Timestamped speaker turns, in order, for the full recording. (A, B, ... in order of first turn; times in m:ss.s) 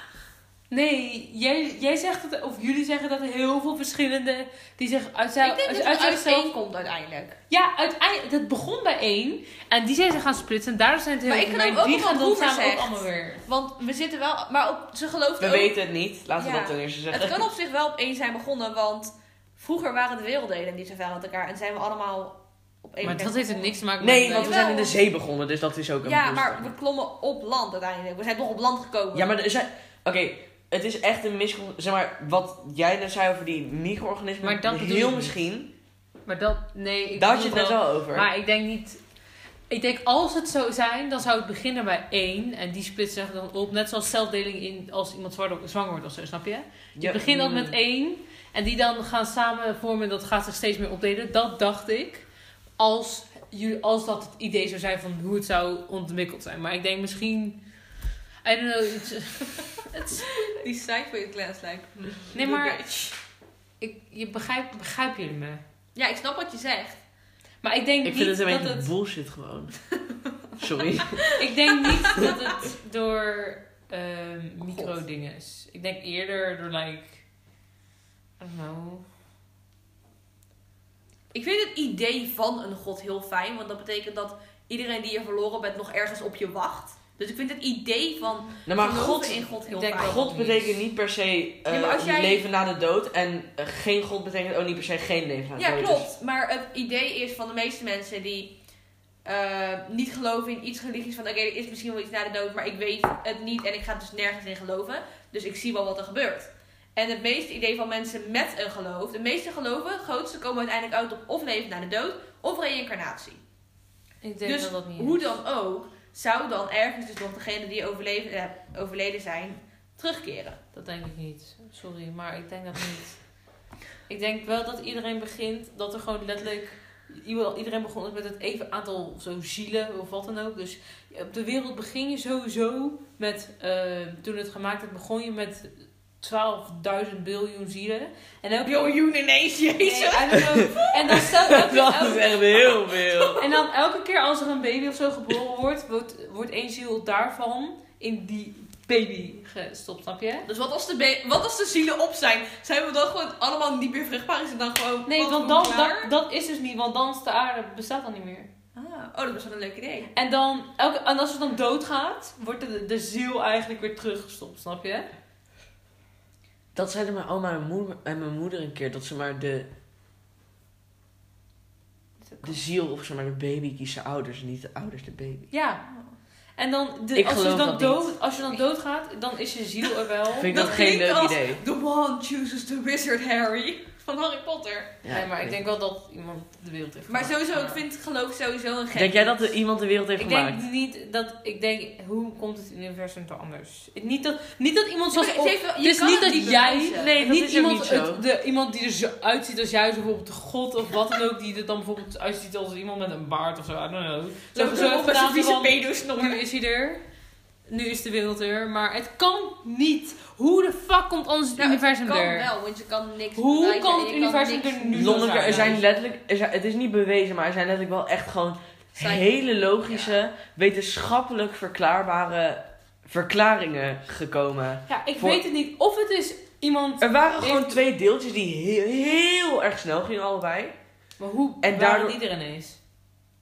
0:00.7-0:06.5 A
0:05.4-0:07.4 B
0:07.5-0:13.4 A
0:11.2-0:15.8 B
0:15.4-0:17.5 C
0:16.4-0:23.8 B
0:23.0-0:24.5 A
0:24.0-0:26.7 C
0:24.3-0:25.0 B
0:26.0-0:29.3 B
0:29.1-0:35.7 C
0:34.4-0:35.4 A
0:36.2-0:39.0 A
0:37.1-0:38.3 C
0:39.7-0:52.2 A
0:47.0-0:47.8 C
0:52.8-0:57.6 A
0:58.4-1:00.5 A
1:00.3-1:03.2 B
1:02.3-1:02.8 A
1:03.8-1:05.6 A
1:05.9-1:07.0 B
1:07.6-1:08.9 A
1:08.0-1:09.8 C
1:10.6-1:11.2 C
1:11.0-1:12.3 B
1:11.4-1:17.2 A
1:14.6-1:15.0 B
1:18.4-1:19.0 A
1:21.3-1:30.2 B
1:28.6-1:36.1 C
1:29.7-1:30.8 A
1:31.7-1:32.4 B
1:35.6-1:38.5 B
1:39.2-1:53.4 B
1:54.2-1:55.3 A
1:54.4-2:00.6 B
2:00.7-2:03.3 A
2:04.1-2:18.9 A
2:18.6-2:21.3 B
2:19.8-2:22.7 A
2:21.2-2:23.4 C
2:23.4-2:30.4 A
2:30.4-2:36.1 B
2:35.1-2:38.5 A
2:38.7-2:40.1 B
2:40.1-2:45.1 A
2:46.7-2:49.7 C
2:52.2-2:52.6 B
2:52.4-2:55.5 C
2:55.5-2:55.8 A
2:55.8-2:56.1 B
2:56.6-3:00.8 A
2:57.1-2:58.1 C
3:00.3-3:01.6 C
3:00.5-3:05.0 B
3:05.0-3:05.6 C
3:05.1-3:07.8 A
3:07.1-3:09.6 B
3:08.9-3:10.6 C
3:10.2-3:27.0 A
3:15.1-3:17.2 B
3:16.9-3:18.2 C
3:24.5-3:26.4 B
3:27.7-3:32.4 A
3:31.6-3:35.6 B
3:33.3-3:35.8 A
3:34.9-3:45.4 C
3:38.9-3:40.2 B
3:44.9-3:47.8 A
3:47.0-3:50.8 C
3:51.2-3:52.8 A
3:51.6-3:52.2 C